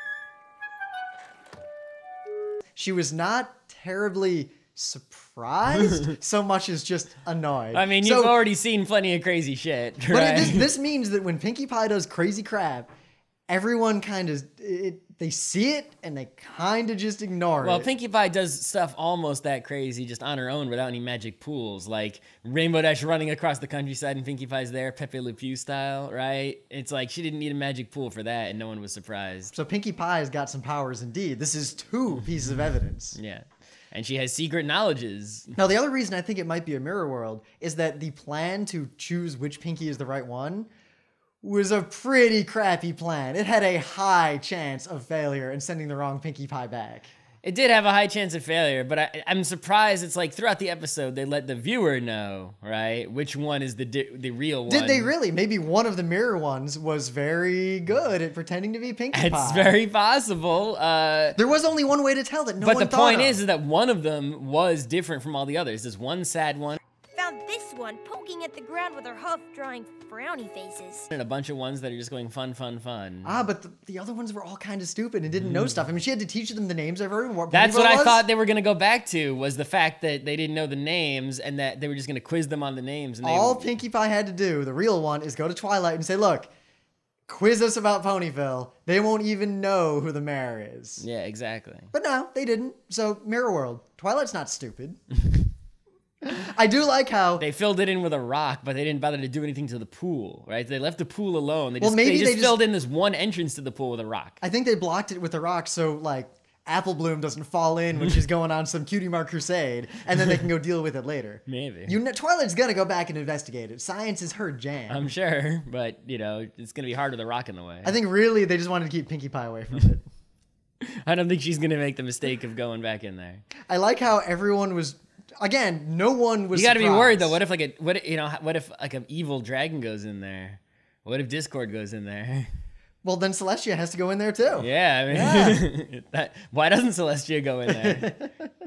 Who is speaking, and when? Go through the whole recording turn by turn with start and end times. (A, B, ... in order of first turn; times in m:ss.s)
0:02.8-0:08.4 A
0:07.7-0:10.7 B
0:10.1-0:12.9 A
0:13.5-0:17.9 A
0:17.6-0:29.5 B
0:29.5-0:33.2 A
0:33.1-0:35.6 B
0:35.6-0:40.7 A
0:41.4-0:47.1 A
0:47.4-0:55.1 B
0:54.7-0:59.7 A
0:59.1-1:01.4 B
1:01.4-1:03.4 A
1:02.6-1:06.8 B
1:07.1-1:11.1 C
1:11.1-1:13.4 B
1:13.2-1:18.2 A
1:15.3-1:15.8 B
1:17.5-1:23.8 B
1:23.2-1:26.5 A
1:27.3-1:31.0 A
1:31.0-1:31.9 B
1:31.9-1:35.0 A
1:36.2-1:37.4 A
1:37.4-1:44.4 B
1:41.8-1:42.6 A
1:44.4-1:55.1 A
1:51.5-1:51.9 B
1:54.9-1:57.9 B
1:57.8-2:00.0 A
2:00.8-2:03.4 B
2:03.7-2:07.4 A
2:06.5-2:12.5 B
2:13.0-2:15.6 A
2:14.6-2:18.2 B
2:17.7-2:18.3 A